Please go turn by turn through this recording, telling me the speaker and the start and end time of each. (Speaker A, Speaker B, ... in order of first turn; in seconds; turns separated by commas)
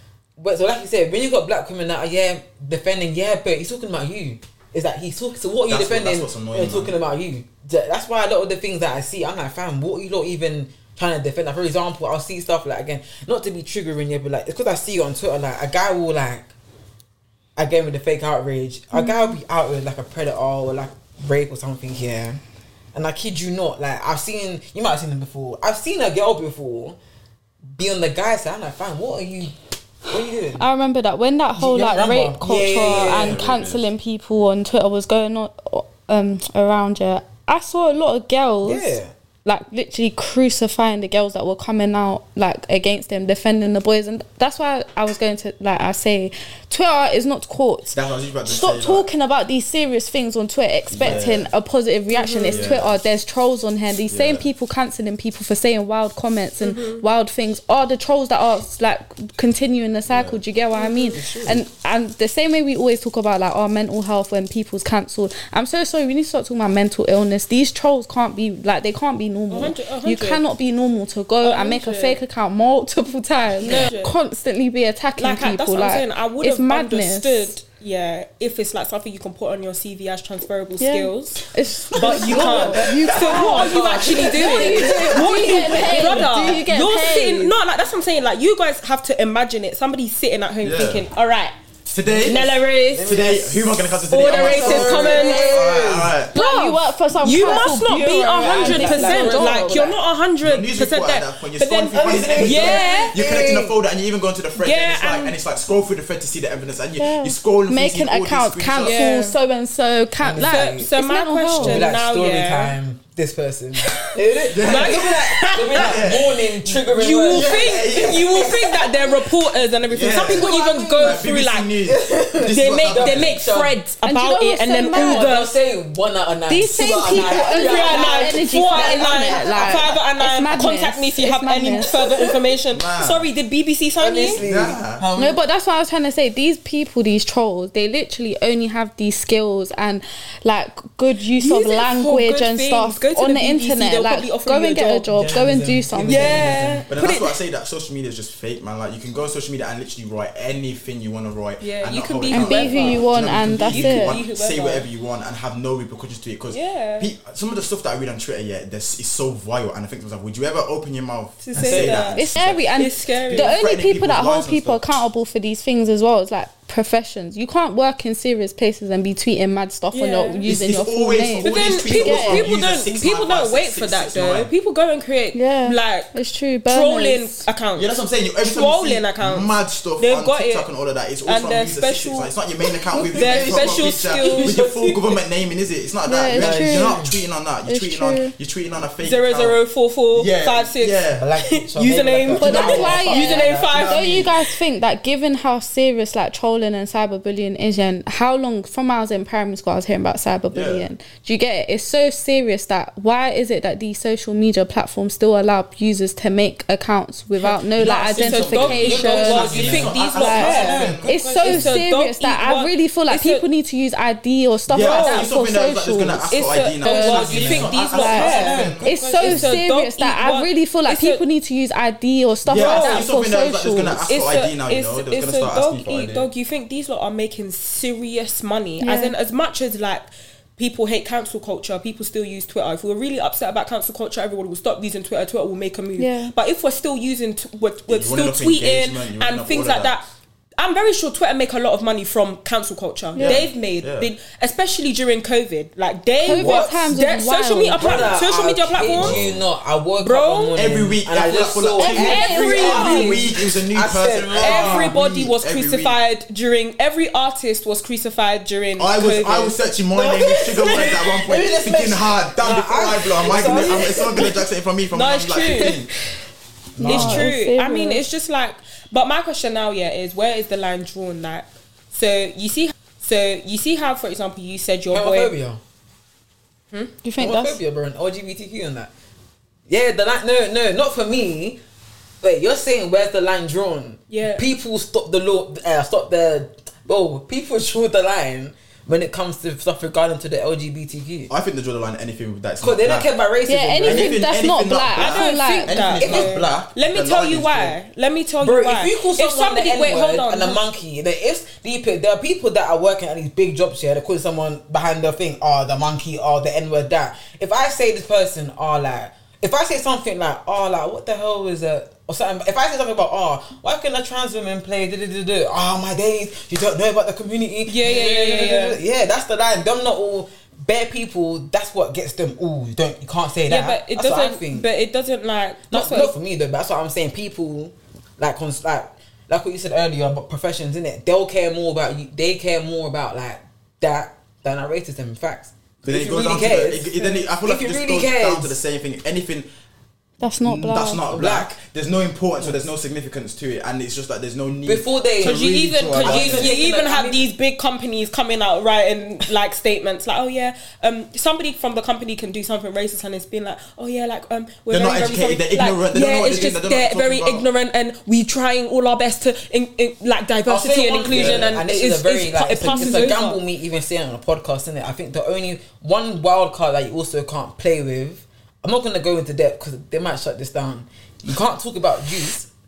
Speaker A: 0.4-16.5, Speaker B: 5.7-7.0, Speaker A: 17.6-22.4, Speaker C: 18.9-19.4, Speaker A: 22.9-27.0, Speaker A: 27.7-30.6, Speaker C: 30.6-77.5, Speaker A: 31.6-33.4, Speaker B: 32.7-33.9, Speaker A: 38.6-39.1, Speaker B: 47.9-49.0, Speaker B: 50.9-51.5, Speaker D: 52.1-52.7, Speaker B: 52.5-53.0, Speaker B: 54.1-54.4, Speaker D: 56.6-57.0, Speaker B: 60.1-60.4, Speaker D: 60.7-61.3, Speaker D: 69.5-70.4, Speaker D: 71.4-72.2, Speaker D: 73.6-74.2, Speaker D: 75.2-91.5, Speaker C: 80.8-87.5, Speaker A: 82.0-86.6, Speaker B: 90.6-91.0, Speaker B: 91.9-96.3, Speaker A: 92.1-96.2, Speaker D: 92.2-93.1, Speaker D: 94.1-95.5, Speaker C: 96.3-100.0, Speaker D: 96.3-103.2, Speaker A: 98.4-99.9, Speaker B: 100.4-109.1, Speaker A: 101.9-103.8, Speaker D: 104.6-105.4, Speaker C: 107.0-111.9, Speaker D: 108.8-109.4, Speaker A: 110.2-110.9, Speaker D: 110.4-112.8, Speaker A: 111.6-119.1, Speaker B: 114.5-115.1, Speaker D: 114.6-116.0, Speaker B: 115.7-116.4, Speaker D: 116.7-121.7, Speaker B: 117.3-118.6, Speaker B: 119.9-123.5, Speaker A: 120.1-121.3, Speaker A: 121.8-123.8, Speaker D: 122.5-125.5, Speaker C: 124.0-125.3, Speaker A: 124.9-129.8, Speaker C: 126.5-132.0, Speaker D: 127.2-134.4, Speaker A: 131.7-132.2, Speaker B: 132.7-133.3, Speaker A: 134.0-135.4, Speaker B: 134.4-135.0, Speaker C: 135.2-146.8, Speaker D: 141.4-145.1, Speaker A: 145.2-146.9, Speaker B: 145.2-162.7, Speaker D: 146.1-147.4, Speaker D: 151.6-154.8, Speaker C: 152.3-154.2, Speaker D: 156.5-157.1, Speaker D: 161.4-163.6, Speaker A: 161.6-162.1, Speaker C: 162.1-172.5, Speaker B: 163.3-165.0, Speaker D: 169.9-170.4, Speaker B: 170.5-174.5, Speaker D: 171.4-176.1, Speaker C: 175.3-177.4, Speaker D: 176.7-180.7, Speaker B: 177.8-189.6, Speaker D: 181.2-182.3, Speaker D: 182.9-185.0, Speaker A: 183.0-184.7, Speaker C: 186.1-187.0, Speaker A: 186.3-187.1, Speaker C: 187.7-188.3, Speaker D: 189.0-194.5, Speaker B: 190.1-191.3, Speaker A: 191.2-193.7, Speaker C: 192.4-224.1, Speaker B: 192.4-193.1, Speaker B: 193.7-194.4, Speaker B: 200.5-200.8, Speaker D: 207.4-213.4, Speaker B: 207.8-211.7, Speaker A: 209.2-211.5, Speaker B: 214.7-219.6, Speaker D: 214.8-215.3, Speaker D: 216.3-221.2, Speaker A: 217.1-218.7, Speaker B: 222.5-226.3, Speaker D: 222.5-223.1, Speaker D: 224.1-240.1, Speaker C: 228.8-229.1, Speaker C: 236.0-236.3, Speaker B: 237.9-239.9, Speaker D: 240.6-249.2, Speaker C: 243.2-243.4, Speaker B: 243.2-244.1, Speaker C: 246.2-248.1, Speaker A: 246.3-246.9, Speaker A: 247.8-254.9, Speaker B: 248.9-249.4, Speaker D: 250.0-250.6, Speaker B: 250.6-256.0, Speaker C: 251.8-253.1, Speaker D: 251.8-253.2, Speaker D: 254.4-259.6, Speaker B: 258.8-265.9, Speaker A: 259.9-264.3, Speaker D: 263.4-264.3, Speaker D: 264.9-265.8, Speaker A: 266.8-267.3, Speaker C: 266.8-268.0, Speaker D: 266.8-275.3, Speaker A: 274.9-275.6, Speaker C: 277.0-277.6, Speaker A: 277.2-278.9, Speaker A: 279.7-281.6, Speaker A: 282.2-291.3, Speaker D: 284.1-284.4, Speaker B: 291.3-293.1, Speaker A: 292.6-294.2, Speaker C: 293.5-295.7, Speaker B: 293.8-297.8, Speaker D: 294.9-300.6, Speaker A: 295.9-296.4, Speaker A: 298.4-324.6, Speaker D: 317.7-318.8, Speaker D: 323.5-326.1, Speaker A: 325.7-338.6, Speaker B: 335.9-339.5, Speaker C: 340.2-341.0, Speaker B: 340.4-346.5, Speaker A: 341.1-341.5, Speaker A: 342.4-342.7, Speaker A: 344.6-345.4, Speaker D: 345.2-363.4, Speaker A: 346.0-347.2, Speaker B: 354.7-357.4, Speaker A: 360.5-372.5, Speaker B: 361.0-361.6